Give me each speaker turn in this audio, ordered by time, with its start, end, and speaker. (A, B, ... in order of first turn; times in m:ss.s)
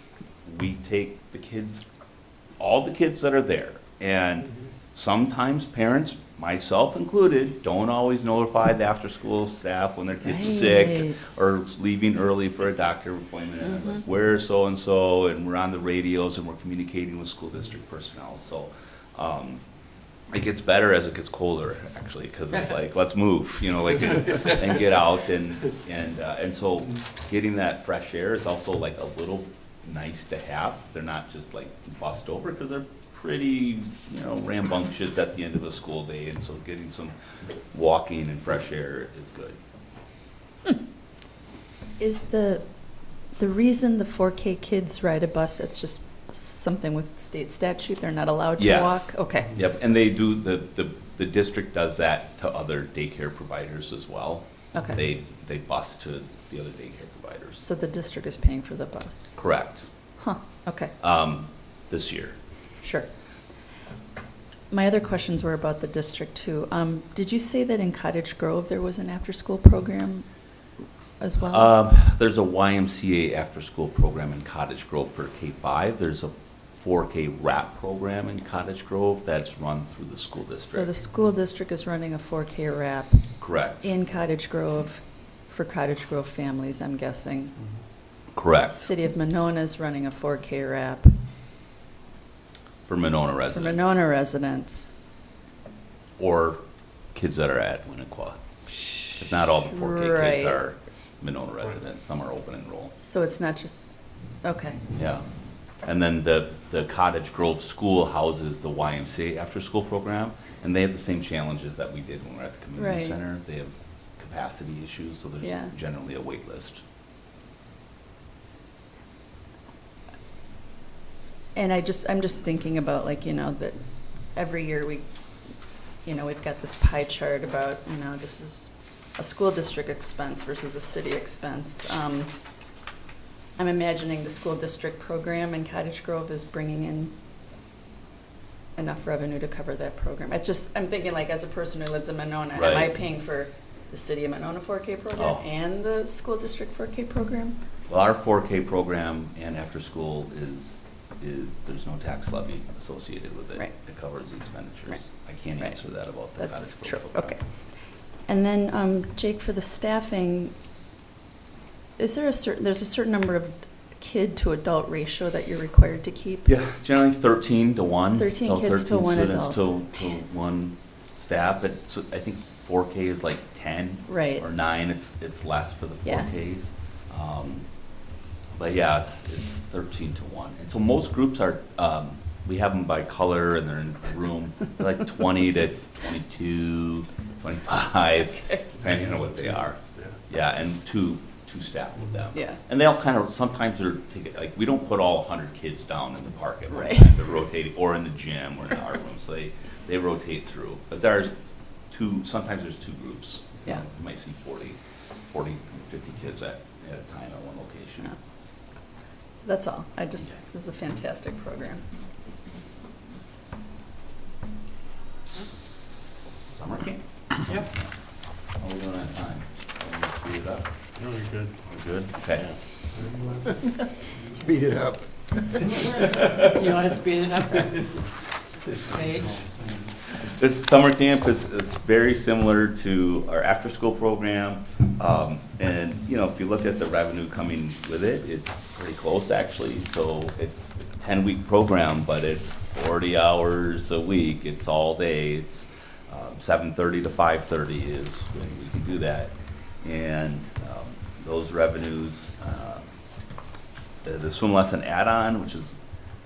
0:00.4-0:01.9 A
0:02.6-0:19.6 A
0:10.3-0:11.3 B
0:20.3-0:37.1 A
0:37.7-0:39.6 A
0:42.0-0:42.6 B
0:43.4-0:49.5 B
0:48.6-0:57.6 A
0:54.7-0:55.0 B
0:57.6-0:59.4 B
0:59.3-0:59.9 A
1:00.2-1:00.9 B
1:01.0-1:02.4 A
1:02.8-1:03.1 B
1:04.7-1:10.3 B
1:11.2-1:11.7 B
1:11.4-1:21.0 A
1:20.7-1:27.5 B
1:23.4-1:23.9 A
1:28.3-1:29.0 A
1:28.7-1:31.2 B
1:32.9-1:34.0 A
1:33.5-1:34.9 B
1:36.2-1:36.6 A
1:37.1-1:38.4 A
1:39.2-1:42.9 A
1:39.7-1:40.6 B
1:43.0-1:43.8 B
1:44.4-1:44.8 B
1:44.9-1:45.2 A
1:45.8-1:56.8 A
1:52.8-1:53.2 B
1:55.4-1:55.7 B
2:01.6-2:03.8 B
2:04.3-2:05.0 B
2:06.0-2:12.3 B
2:13.6-2:17.1 B
2:18.8-2:27.6 B
2:22.5-2:23.0 A
2:25.1-2:25.4 A
2:27.9-2:37.4 A
2:36.4-2:37.4 B
2:38.3-2:40.5 B
2:42.0-2:46.5 B
2:46.5-2:57.7 A
2:48.2-2:50.0 B
2:54.1-2:54.4 B
2:56.0-2:56.3 B
2:58.6-3:21.4 A
3:08.3-3:08.6 B
3:16.7-3:17.2 B
3:21.9-3:28.2 A
3:29.4-3:31.8 B
3:35.3-3:35.8 A
3:36.5-3:37.9 A
3:38.6-3:40.7 A
3:41.0-3:41.6 C
3:42.1-3:42.5 A
3:42.9-3:43.5 C
3:45.8-3:48.0 D
3:48.9-3:49.3 D
3:48.9-3:49.5 C
3:50.2-4:12.9 A
4:14.0-4:15.8 A